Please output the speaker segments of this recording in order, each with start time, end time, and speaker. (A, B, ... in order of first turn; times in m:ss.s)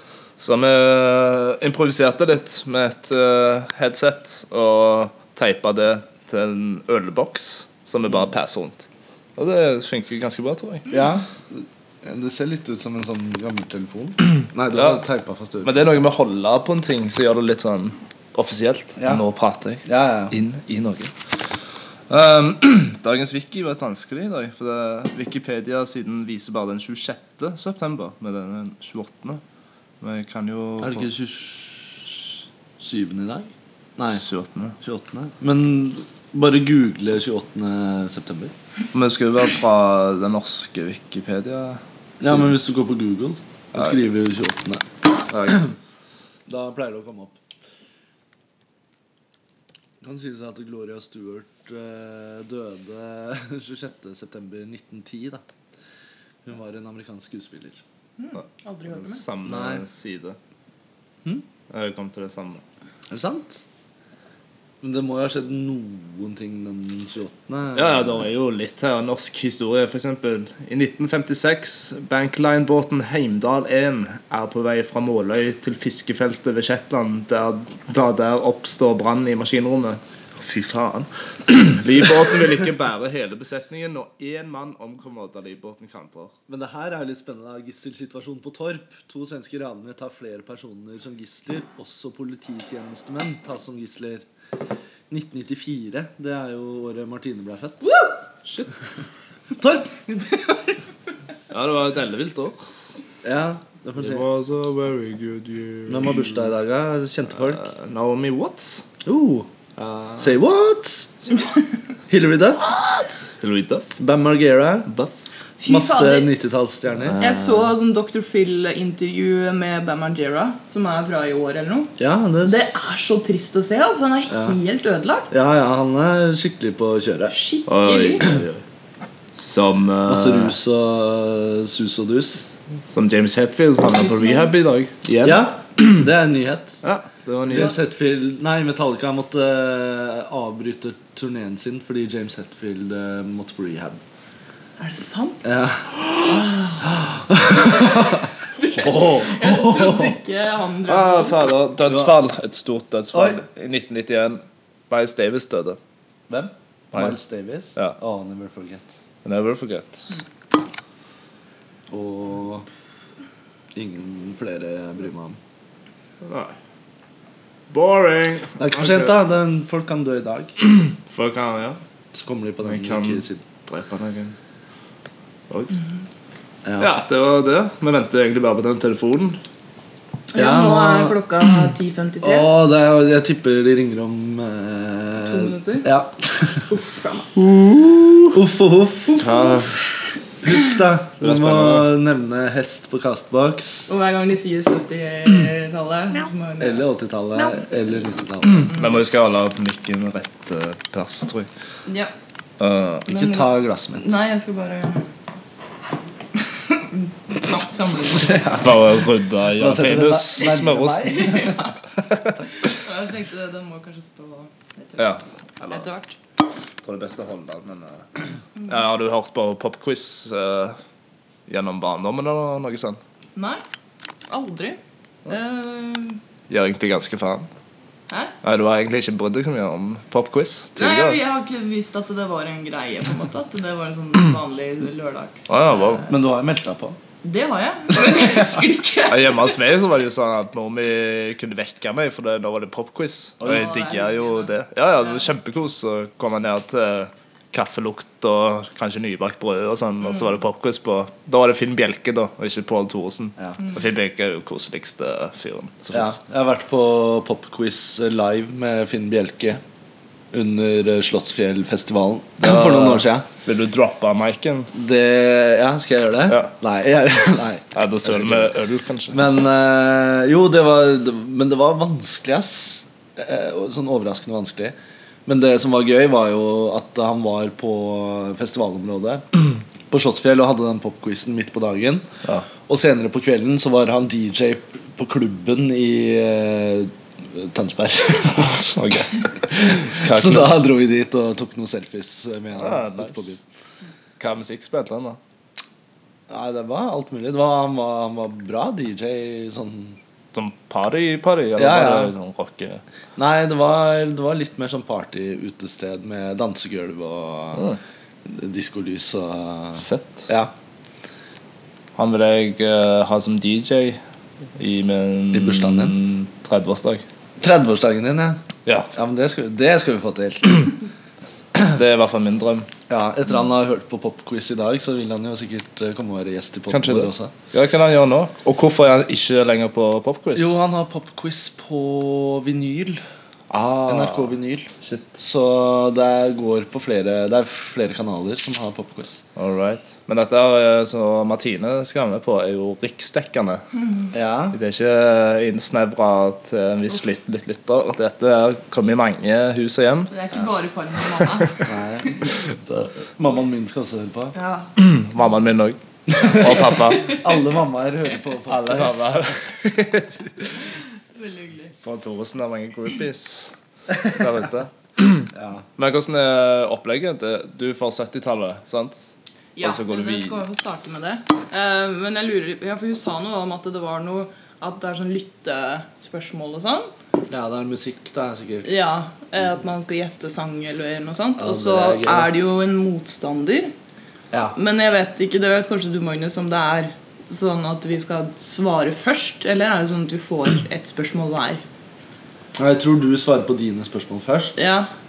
0:00.4-0:10.9 A
0:10.9-0:15.8 B
0:14.7-0:15.0 A
0:15.6-0:21.1 A
0:19.0-0:19.2 B
0:19.9-0:20.4 B
0:22.1-0:29.4 A
0:30.0-0:31.1 A
0:30.8-0:34.3 B
0:34.2-0:34.8 A
0:34.8-0:38.5 B
0:38.9-0:42.6 A
0:42.2-0:44.8 B
0:43.8-0:44.0 A
0:45.3-0:45.6 A
0:46.5-0:47.4 B
0:50.0-0:55.4 B
0:56.4-0:57.8 B
0:58.2-0:59.2 C
0:58.9-1:00.4 A
0:59.4-0:59.8 B
1:01.7-1:02.6 A
1:03.1-1:03.6 B
1:04.8-1:08.2 B
1:07.8-1:26.3 A
1:26.5-1:34.3 B
1:35.1-1:37.8 B
1:37.8-1:38.2 C
1:38.4-1:38.8 A
1:39.6-1:40.4 B
1:41.5-1:42.6 A
1:43.2-1:44.3 B
1:44.0-1:46.5 A
1:45.9-1:47.7 B
1:47.3-1:48.8 A
1:49.0-1:49.5 B
1:49.8-1:50.4 A
1:50.2-1:51.1 B
1:52.1-1:52.7 B
1:53.4-1:53.9 A
1:54.0-1:54.9 B
1:55.6-1:56.3 C
1:55.6-1:57.2 B
1:57.0-1:57.7 A
1:57.2-2:05.4 C
2:02.0-2:02.7 B
2:04.3-2:04.6 B
2:05.3-2:07.4 B
2:07.3-2:08.2 C
2:07.7-2:08.6 A
2:09.4-2:10.6 A
2:10.1-2:12.5 B
2:12.9-2:15.9 A
2:13.9-2:14.5 C
2:15.2-2:16.8 B
2:16.8-2:17.7 A
2:17.5-2:24.0 B
2:24.8-2:25.4 C
2:25.4-2:30.2 B
2:28.6-2:31.6 C
2:30.9-2:35.8 A
2:31.9-2:32.2 B
2:33.1-2:33.4 B
2:36.3-2:38.9 B
2:39.2-2:40.1 A
2:41.9-2:42.7 B
2:43.8-2:45.4 B
2:46.2-2:46.6 A
2:47.7-2:49.2 A
2:48.6-2:50.6 B
2:50.7-2:51.8 A
2:52.1-2:53.4 B
2:52.6-2:54.4 A
2:55.5-2:55.8 A
2:56.6-2:56.9 B
2:56.8-2:59.4 A
3:00.3-3:01.2 B
3:00.3-3:02.5 C
3:02.2-3:06.7 B
3:05.2-3:05.9 C
3:06.7-3:07.3 C
3:07.4-3:08.3 A
3:08.3-3:09.5 B
3:09.1-3:09.6 C
3:09.2-3:09.7 A
3:10.4-3:13.9 B
3:11.2-3:11.9 A
3:13.9-3:16.8 C
3:16.6-3:18.7 B
3:18.6-3:21.5 A
3:21.9-3:22.1 C
3:22.6-3:23.1 A
3:23.1-3:24.2 B
3:23.1-3:25.1 C
3:26.7-3:28.4 C
3:28.1-3:28.9 B
3:28.6-3:31.3 A
3:29.6-3:31.6 B
3:31.1-3:31.8 C
3:32.5-3:35.1 C
3:35.0-3:35.9 A
3:35.7-3:36.2 C
3:36.8-3:38.1 A
3:38.6-3:40.8 A
3:41.5-3:43.0 A
3:43.4-3:43.6 C
3:44.3-3:46.2 C
3:46.5-3:47.5 A
3:48.1-3:48.3 C
3:48.4-3:51.2 A
3:50.8-3:56.1 C
3:55.5-3:56.0 A
3:56.1-3:57.0 B
3:57.2-3:59.5 C
3:58.0-3:58.6 B
3:59.1-4:16.2 A
4:03.4-4:03.8 B
4:03.5-4:05.3 C
4:15.9-4:19.6 B
4:20.3-4:23.3 B
4:22.4-4:24.7 A
4:24.7-4:28.5 B
4:26.3-4:26.5 A
4:27.7-4:29.3 A
4:29.1-4:34.8 B
4:35.3-4:42.0 B
4:42.6-4:48.7 B
4:48.4-4:50.6 A
4:49.5-4:53.4 B
4:52.6-4:53.3 A
4:54.2-4:55.2 A
4:56.3-5:00.0 B
5:00.3-5:02.8 A
5:01.6-5:02.1 B
5:03.2-5:07.7 B
5:08.2-5:10.5 B
5:09.8-5:10.3 A
5:12.0-5:14.0 A
5:14.6-5:17.0 A
5:15.3-5:16.0 B
5:17.4-5:18.4 B
5:18.6-5:18.9 A
5:19.0-5:20.8 B
5:21.6-5:22.7 A
5:22.9-5:27.3 B
5:26.7-5:30.6 A
5:30.4-5:33.0 B
5:33.5-5:35.2 A
5:33.9-5:39.2 B
5:39.4-5:43.6 A
5:44.1-5:44.6 B
5:44.5-5:50.1 A
5:50.1-5:51.6 C
5:51.6-5:54.3 B
5:54.3-5:55.2 C
5:54.8-5:57.1 A
5:56.1-5:59.3 B
5:56.9-5:57.3 C
5:58.5-6:00.5 A
6:01.2-6:01.7 C
6:01.8-6:03.5 A
6:04.0-6:10.4 A
6:05.3-6:05.6 B
6:09.6-6:16.9 C
6:17.3-6:18.7 B
6:18.6-6:23.7 C
6:21.4-6:22.3 B
6:24.6-6:31.6 C
6:32.6-6:34.6 B
6:34.6-6:34.9 C